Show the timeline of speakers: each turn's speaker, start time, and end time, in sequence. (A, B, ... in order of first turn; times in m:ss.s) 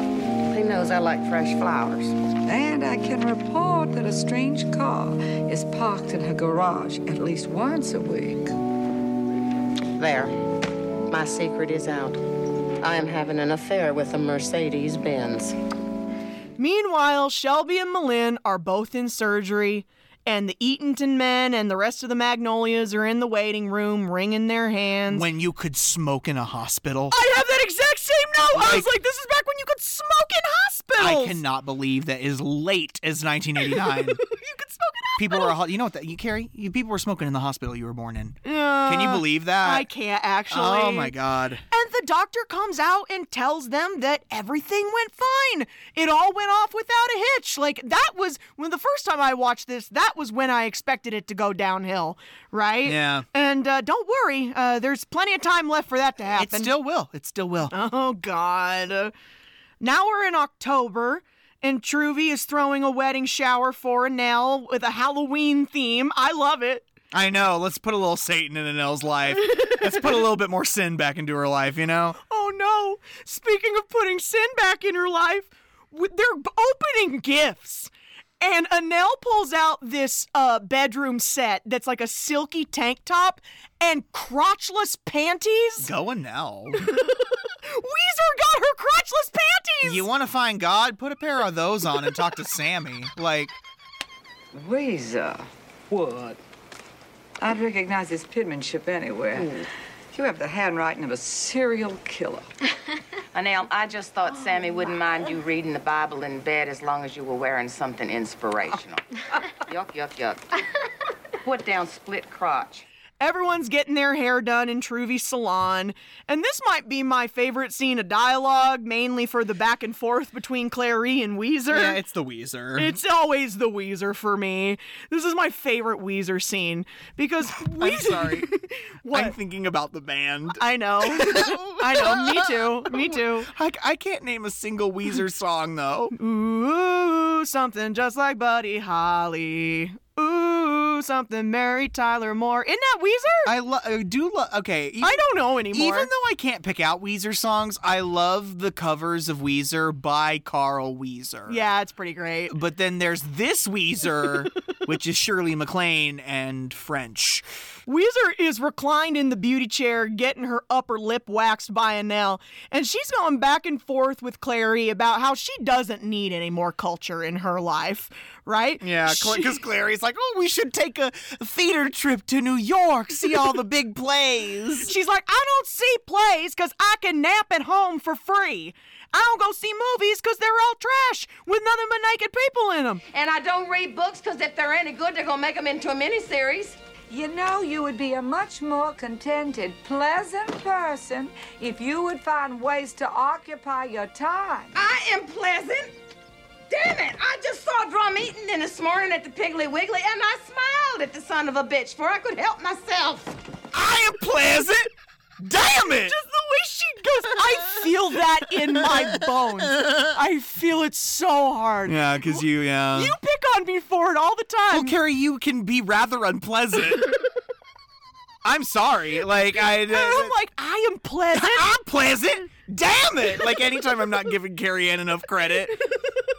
0:00.5-0:02.2 A
0:02.5-0:08.5 B
0:10.0-0:10.4 A
0:11.1-0:12.2 A
0:12.8-0:15.6 A
0:16.6-0:25.3 C
0:25.1-0:27.2 D
0:27.1-0:31.4 C
0:28.5-0:28.9 D
0:31.0-0:34.2 D
0:33.7-0:35.6 C
0:35.2-0:39.9 D
0:38.4-0:41.1 C
0:40.5-0:41.6 D
0:41.7-0:56.7 C
0:52.8-0:53.3 D
0:56.3-0:57.7 D
0:57.7-0:59.1 C
0:59.8-1:06.9 C
1:07.1-1:12.2 D
1:12.3-1:17.9 C
1:18.4-1:25.9 C
1:25.8-1:26.9 D
1:26.8-1:30.1 C
1:29.8-1:33.6 D
1:34.5-1:36.4 B
1:37.4-1:42.5 B
1:43.3-1:49.0 E
1:49.7-1:50.4 A
1:51.4-1:52.8 E
1:53.2-2:02.0 C
2:01.7-2:03.0 D
2:02.8-2:09.4 C
2:07.6-2:08.5 D
2:09.1-2:16.2 D
2:10.6-2:13.5 C
2:16.2-2:23.5 C
2:23.4-2:31.6 D
2:25.0-2:26.1 C
2:31.5-2:32.5 C
2:32.5-2:37.5 D
2:37.9-2:49.6 C
2:48.8-2:54.9 D
2:54.8-3:03.0 C
3:03.1-3:06.8 E
3:07.1-3:14.7 B
3:14.8-3:15.9 E
3:16.7-3:23.4 E
3:23.7-3:26.2 D
3:26.0-3:35.0 C
3:29.7-3:30.1 D
3:31.9-3:33.2 D
3:34.7-3:37.1 D
3:38.4-3:40.4 D
3:39.9-3:41.7 C
3:41.3-3:45.8 D